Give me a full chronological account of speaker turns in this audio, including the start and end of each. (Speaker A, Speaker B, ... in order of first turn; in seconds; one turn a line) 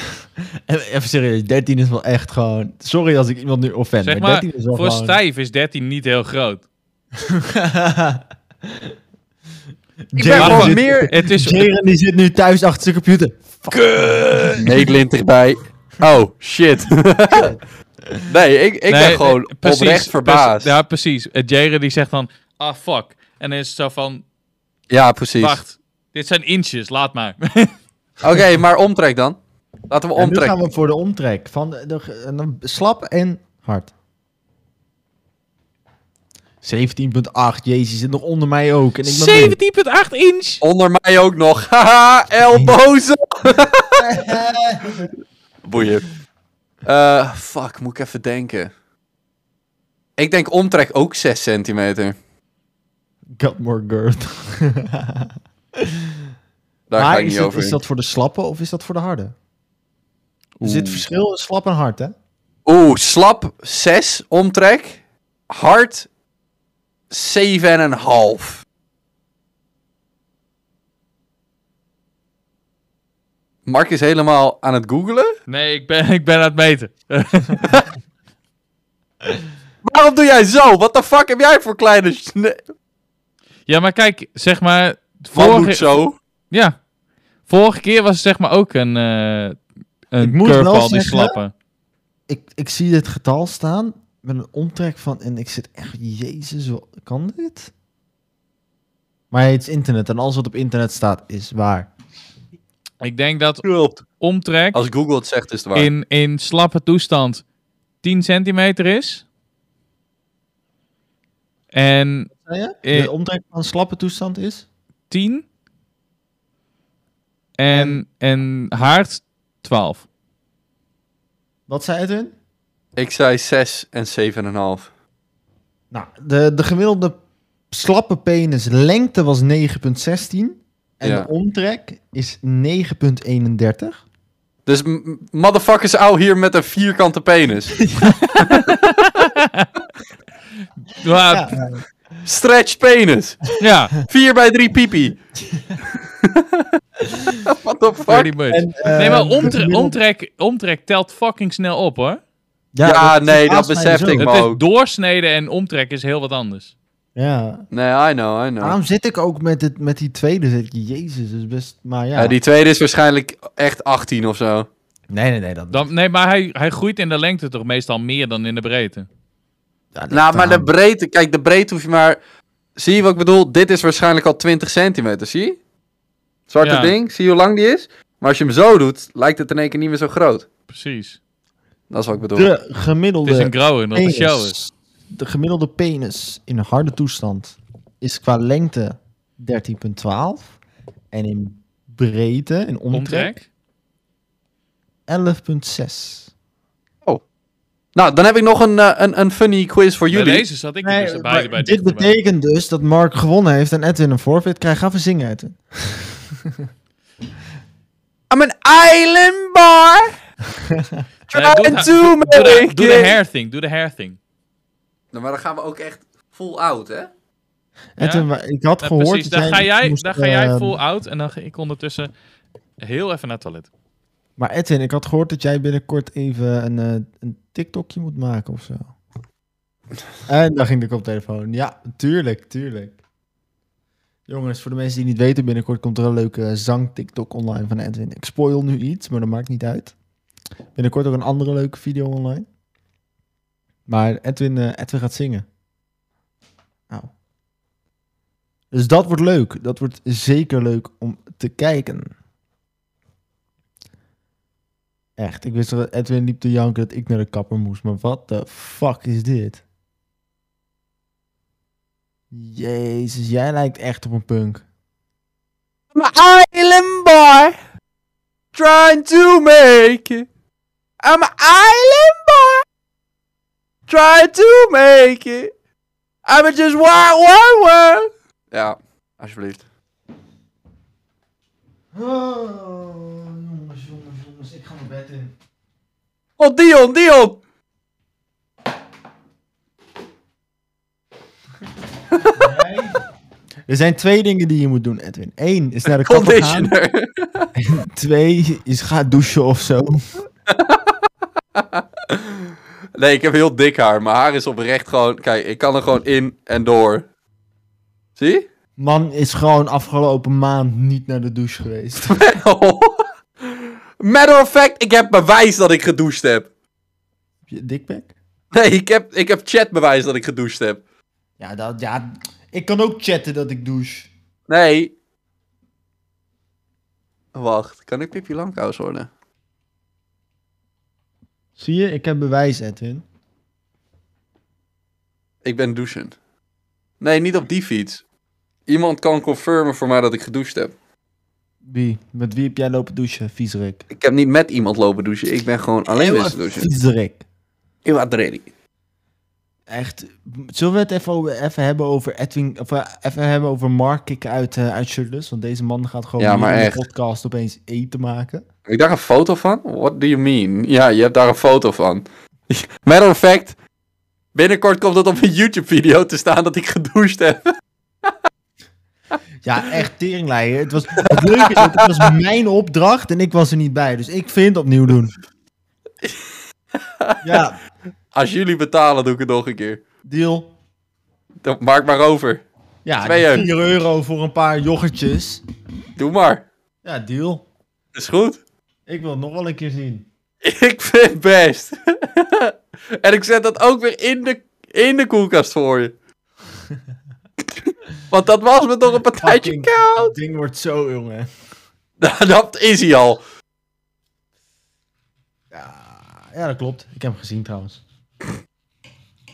Speaker A: 0.7-5.2
Speaker B: 4.0-6.6
Speaker A: 7.2-8.9
Speaker A: 10.1-14.4
Speaker C: 10.2-11.1
Speaker B: 10.3-11.7
Speaker B: 13.7-14.7
Speaker C: 14.6-17.5
Speaker A: 17.3-18.2
Speaker C: 18.3-20.7
Speaker B: 18.9-24.2
Speaker C: 24.9-25.6
Speaker B: 25.4-27.7
Speaker C: 28.2-29.4
Speaker C: 29.9-30.5
Speaker A: 30.1-33.9
Speaker A: 36.6-39.6
Speaker B: 39.0-40.6
Speaker C: 40.6-44.1
Speaker A: 42.5-42.8
Speaker A: 44.0-45.1
Speaker C: 45.6-46.1
Speaker C: 46.9-48.7
Speaker C: 50.2-52.1
Speaker A: 53.4-56.3
Speaker C: 56.9-57.8
Speaker A: 57.0-59.4
Speaker B: 60.6-61.1
Speaker A: 60.6-62.1
Speaker C: 62.7-66.1
Speaker C: 67.1-68.6
Speaker C: 73.7-75.3
Speaker B: 75.5-77.7
Speaker C: 79.8-82.6
Speaker B: 83.7-85.9
Speaker C: 85.3-86.2
Speaker B: 86.5-86.8
Speaker B: 87.5-91.5
Speaker A: 90.2-91.4
Speaker A: 92.3-97.7
Speaker A: 99.3-101.9
Speaker B: 103.0-103.6
Speaker C: 103.6-104.0
Speaker B: 104.2-104.8
Speaker C: 104.7-105.9
Speaker B: 105.8-107.4
Speaker B: 108.0-109.2
Speaker B: 111.7-112.3
Speaker A: 112.4-114.7
Speaker B: 112.8-113.1
Speaker B: 115.1-115.5
Speaker B: 117.6-120.0
Speaker A: 117.7-118.0
Speaker A: 121.7-122.3
Speaker C: 123.0-124.9
Speaker A: 125.9-127.2
Speaker A: 127.7-134.0
Speaker C: 131.0-131.3
Speaker C: 134.7-137.9
Speaker A: 137.9-138.2
Speaker C: 138.4-138.7
Speaker B: 138.4-139.7
Speaker B: 141.0-141.6
Speaker A: 141.3-141.8
Speaker C: 142.2-145.2
Speaker B: 143.6-143.9
Speaker C: 146.1-146.7
Speaker C: 147.4-148.3
Speaker B: 148.1-152.2
Speaker A: 148.5-150.0
Speaker A: 152.8-154.3
Speaker C: 152.8-154.6
Speaker B: 154.2-156.7
Speaker A: 157.2-157.7
Speaker C: 157.7-158.8
Speaker A: 158.6-162.4
Speaker C: 162.2-164.7
Speaker A: 165.1-165.9
Speaker B: 165.7-169.1
Speaker A: 169.9-170.7
Speaker C: 170.1-172.2
Speaker C: 172.8-175.6
Speaker C: 176.5-180.5
Speaker B: 176.6-176.9
Speaker B: 180.7-181.2
Speaker C: 181.9-182.5
Speaker A: 182.3-190.6
Speaker B: 183.2-184.6
Speaker A: 191.1-193.3
Speaker B: 192.9-193.5
Speaker A: 195.1-196.3
Speaker C: 197.9-200.4
Speaker B: 200.1-202.1
Speaker A: 200.8-206.7
Speaker C: 208.3-210.1
Speaker A: 210.5-211.1
Speaker C: 211.3-213.2
Speaker B: 211.3-214.2
Speaker C: 215.1-217.1
Speaker A: 218.0-220.8
Speaker B: 218.0-218.3
Speaker B: 218.8-222.1
Speaker B: 222.8-223.7
Speaker A: 224.4-228.9
Speaker A: 230.3-233.0
Speaker A: 234.3-239.9
Speaker A: 240.8-242.5
Speaker A: 243.9-245.5
Speaker A: 248.7-252.1
Speaker A: 255.2-259.6
Speaker A: 262.3-264.6
Speaker C: 265.9-267.6
Speaker C: 268.5-270.3
Speaker C: 271.0-272.6
Speaker C: 273.9-275.5
Speaker C: 276.3-279.6
Speaker A: 281.9-285.3
Speaker C: 286.4-287.4
Speaker A: 292.3-293.0
Speaker A: 293.7-296.7
Speaker C: 296.0-297.5
Speaker A: 297.6-300.0
Speaker C: 300.5-300.9
Speaker C: 301.6-307.1
Speaker C: 308.2-308.5
Speaker A: 308.8-312.2
Speaker C: 312.1-316.5
Speaker A: 317.5-318.1
Speaker C: 318.5-320.8
Speaker A: 321.4-324.1
Speaker C: 324.5-324.9
Speaker C: 327.4-329.1
Speaker A: 331.6-333.1
Speaker C: 335.4-336.1
Speaker C: 337.0-338.0
Speaker C: 338.7-340.7
Speaker A: 341.6-343.8
Speaker C: 343.9-346.7
Speaker A: 345.9-347.2
Speaker C: 347.9-348.5
Speaker A: 349.7-358.5
Speaker C: 356.2-356.8
Speaker C: 358.7-363.6
Speaker C: 364.4-367.5
Speaker A: 369.4-375.1
Speaker C: 371.0-371.9
Speaker C: 377.0-377.4
Speaker A: 377.2-377.6
Speaker C: 378.1-379.8
Speaker A: 380.1-380.5
Speaker C: 381.4-382.4
Speaker A: 382.9-385.4
Speaker C: 383.0-383.5
Speaker C: 386.0-386.5
Speaker A: 386.8-387.4
Speaker C: 387.9-388.4
Speaker A: 388.9-390.1
Speaker C: 390.4-395.9
Speaker C: 397.7-400.1
Speaker A: 399.2-401.3
Speaker C: 402.0-403.2
Speaker A: 405.5-407.8